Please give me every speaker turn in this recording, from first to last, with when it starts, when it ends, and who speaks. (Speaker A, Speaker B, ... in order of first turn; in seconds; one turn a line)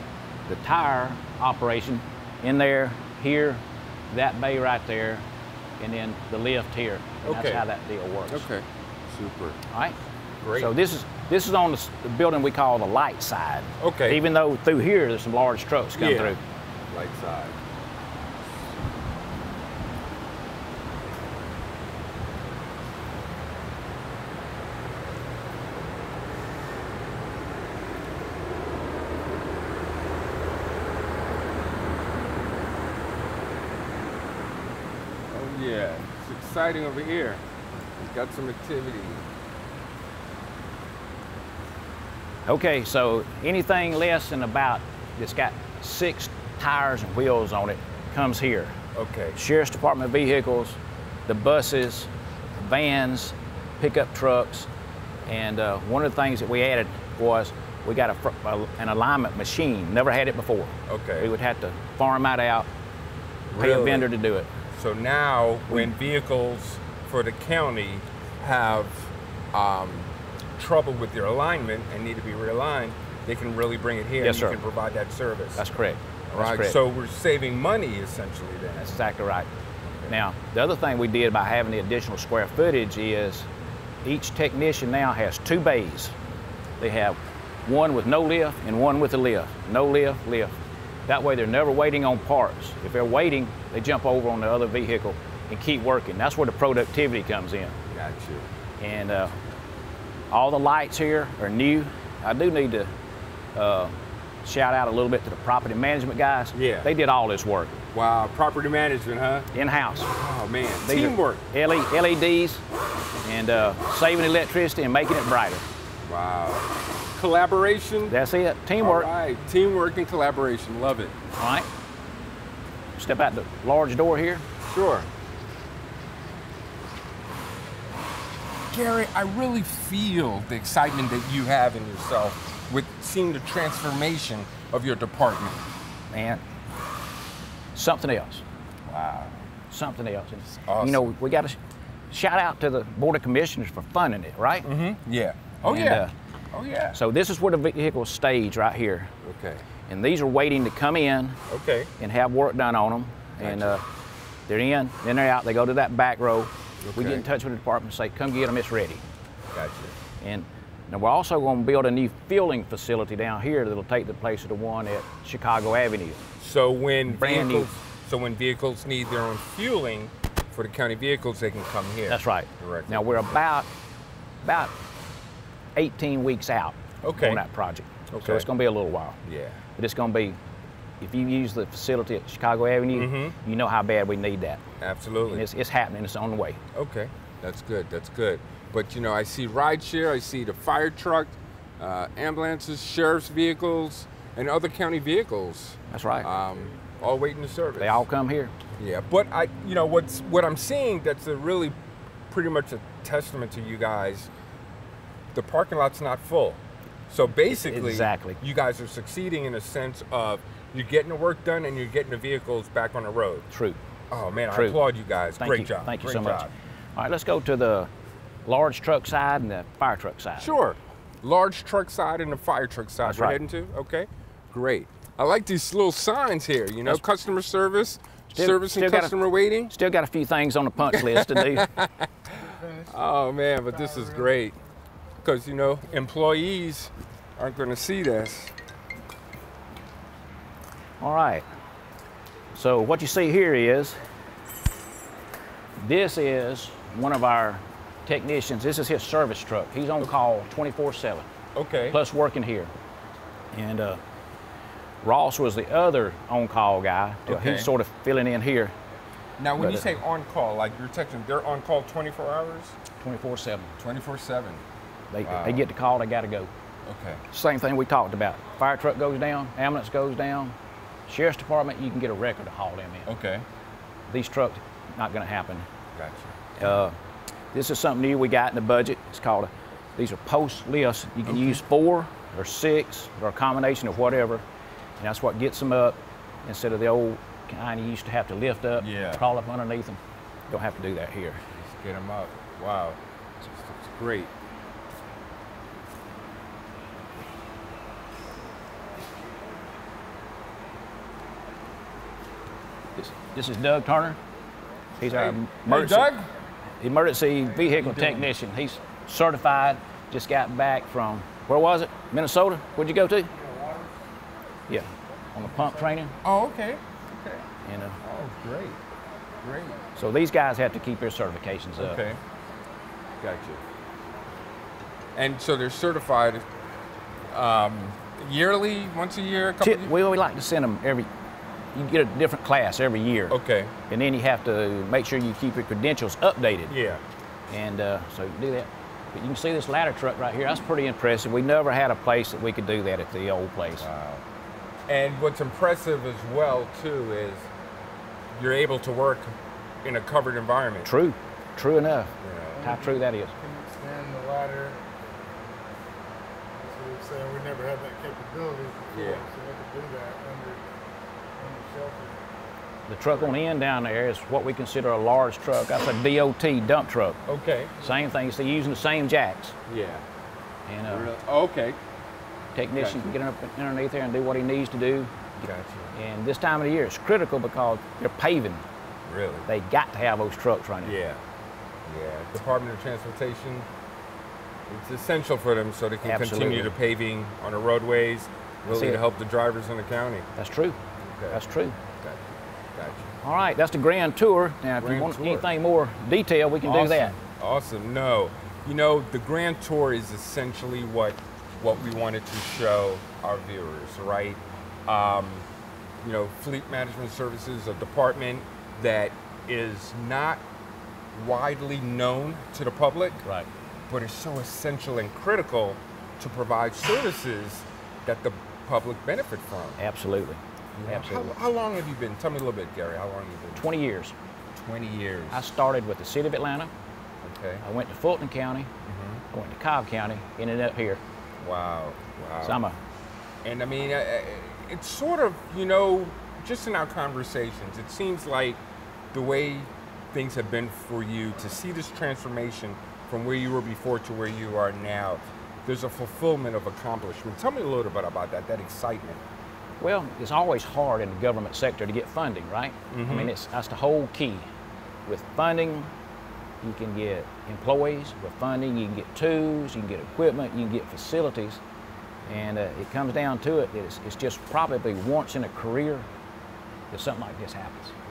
Speaker A: 0.5-5.2
Speaker A: 5.8-8.5
Speaker B: 7.2-7.7
Speaker B: 8.3-9.6
Speaker A: 9.7-10.0
Speaker B: 10.4-10.7
Speaker A: 10.5-16.4
Speaker B: 13.8-14.2
Speaker B: 15.9-17.6
Speaker B: 35.3-37.4
Speaker B: 37.9-39.3
Speaker A: 42.5-48.8
Speaker B: 48.9-49.4
Speaker A: 49.3-54.7
Speaker A: 55.2-62.7
Speaker B: 60.9-61.3
Speaker B: 63.5-64.1
Speaker A: 63.5-64.5
Speaker B: 64.7-75.7
Speaker A: 74.2-74.6
Speaker A: 75.6-76.8
Speaker B: 76.3-79.0
Speaker A: 78.8-79.5
Speaker A: 80.1-83.5
Speaker A: 84.0-86.1
Speaker A: 86.8-90.5
Speaker A: 91.1-97.8
Speaker B: 97.9-98.5
Speaker A: 98.8-99.4
Speaker A: 100.3-102.9
Speaker A: 103.5-107.8
Speaker B: 106.5-106.9
Speaker B: 107.9-111.4
Speaker A: 109.5-110.1
Speaker A: 110.8-112.6
Speaker A: 113.2-115.7
Speaker B: 116.0-118.2
Speaker A: 118.1-119.1
Speaker B: 118.7-121.2
Speaker A: 121.3-121.7
Speaker A: 123.0-124.4
Speaker B: 124.7-125.1
Speaker B: 128.7-135.7
Speaker A: 136.1-136.4
Speaker A: 137.7-138.4
Speaker B: 138.8-139.4
Speaker A: 139.7-141.6
Speaker B: 140.5-141.1
Speaker A: 142.1-144.7
Speaker B: 144.6-147.0
Speaker A: 145.6-146.1
Speaker A: 146.9-149.1
Speaker B: 149.2-149.7
Speaker A: 149.9-151.4
Speaker B: 151.5-151.9
Speaker A: 152.0-153.8
Speaker B: 153.4-153.8
Speaker A: 154.5-159.0
Speaker B: 156.8-157.3
Speaker B: 159.5-160.0
Speaker A: 160.2-166.2
Speaker B: 166.4-173.4
Speaker A: 167.1-167.7
Speaker A: 172.1-173.7
Speaker A: 174.4-174.7
Speaker A: 175.7-179.2
Speaker B: 177.0-177.4
Speaker B: 178.1-178.5
Speaker B: 179.2-179.6
Speaker A: 179.8-180.4
Speaker A: 181.0-184.6
Speaker B: 182.9-183.4
Speaker B: 184.8-185.5
Speaker A: 185.3-186.6
Speaker B: 186.7-198.1
Speaker A: 195.9-196.3
Speaker A: 197.8-198.5
Speaker B: 198.8-201.8
Speaker B: 202.3-204.3
Speaker B: 205.3-213.5
Speaker A: 207.6-208.4
Speaker A: 213.5-213.8
Speaker B: 214.1-216.5
Speaker A: 214.5-214.8
Speaker A: 215.4-217.9
Speaker A: 218.4-220.5
Speaker B: 220.4-229.7
Speaker A: 223.0-223.4
Speaker A: 228.3-229.2
Speaker A: 229.7-231.7
Speaker B: 230.9-234.6
Speaker C: 232.5-232.9
Speaker B: 235.2-238.5
Speaker A: 241.0-241.4
Speaker A: 242.5-244.0
Speaker A: 245.8-251.3
Speaker B: 251.5-252.0
Speaker A: 251.9-252.7
Speaker A: 253.5-254.0
Speaker A: 255.0-258.7
Speaker B: 257.2-257.7
Speaker B: 259.4-262.8
Speaker A: 259.6-259.9
Speaker A: 263.0-263.7
Speaker B: 263.8-264.6
Speaker A: 265.1-266.5
Speaker B: 265.2-265.7
Speaker B: 266.8-267.2
Speaker A: 267.3-270.5
Speaker A: 271.1-273.1
Speaker B: 273.1-273.4
Speaker A: 274.1-275.7
Speaker B: 275.9-276.8
Speaker A: 276.6-277.0
Speaker A: 277.5-284.4
Speaker B: 281.2-281.6
Speaker A: 285.0-291.4
Speaker B: 288.8-289.2
Speaker B: 291.5-294.3
Speaker A: 302.9-304.2
Speaker A: 305.0-306.1
Speaker B: 305.0-306.3
Speaker A: 306.8-313.3
Speaker B: 307.7-308.3
Speaker C: 313.6-313.9
Speaker A: 314.7-316.1
Speaker B: 316.2-317.4
Speaker A: 317.6-318.0
Speaker B: 318.0-318.8
Speaker B: 319.4-319.8
Speaker A: 319.9-322.0
Speaker B: 321.8-322.2
Speaker B: 323.2-323.6
Speaker B: 325.1-326.5
Speaker B: 327.3-329.9
Speaker A: 329.6-331.1
Speaker A: 331.7-333.4
Speaker B: 333.3-333.7
Speaker A: 333.9-336.8
Speaker B: 336.7-337.0
Speaker A: 337.5-343.9
Speaker B: 343.7-344.2
Speaker B: 344.9-347.5
Speaker B: 348.3-350.9
Speaker A: 350.8-353.3
Speaker B: 352.2-352.8
Speaker C: 352.6-354.9
Speaker C: 356.6-360.7
Speaker B: 358.9-359.3
Speaker C: 361.4-362.3
Speaker A: 362.9-367.2
Speaker B: 367.2-367.9
Speaker A: 367.8-369.6
Speaker B: 369.7-370.1
Speaker A: 370.6-371.1
Speaker B: 370.9-371.8
Speaker A: 372.5-375.4
Speaker B: 372.7-373.1
Speaker B: 375.4-375.9
Speaker A: 375.9-378.6
Speaker B: 379.1-379.5
Speaker A: 379.5-380.9
Speaker B: 380.8-381.2
Speaker B: 381.9-383.7
Speaker B: 384.7-390.3
Speaker A: 386.0-386.8
Speaker A: 388.6-389.0
Speaker A: 390.4-391.8
Speaker B: 391.0-391.4
Speaker B: 392.0-393.1
Speaker A: 393.2-397.2
Speaker B: 394.8-395.5
Speaker B: 396.6-405.5
Speaker B: 406.0-410.4
Speaker B: 411.1-413.2
Speaker A: 413.2-413.5
Speaker B: 413.9-419.8
Speaker A: 419.8-421.4
Speaker B: 420.7-423.8
Speaker A: 423.5-424.1
Speaker B: 424.5-425.5
Speaker A: 425.3-426.7
Speaker B: 427.2-427.6
Speaker A: 427.6-428.7
Speaker B: 428.8-429.2
Speaker A: 429.3-431.0
Speaker B: 431.4-432.6
Speaker A: 432.4-432.8
Speaker B: 433.4-449.2
Speaker A: 449.8-454.5
Speaker B: 452.9-453.3
Speaker A: 455.1-455.9
Speaker A: 456.6-461.6
Speaker A: 462.2-466.1
Speaker A: 466.9-467.9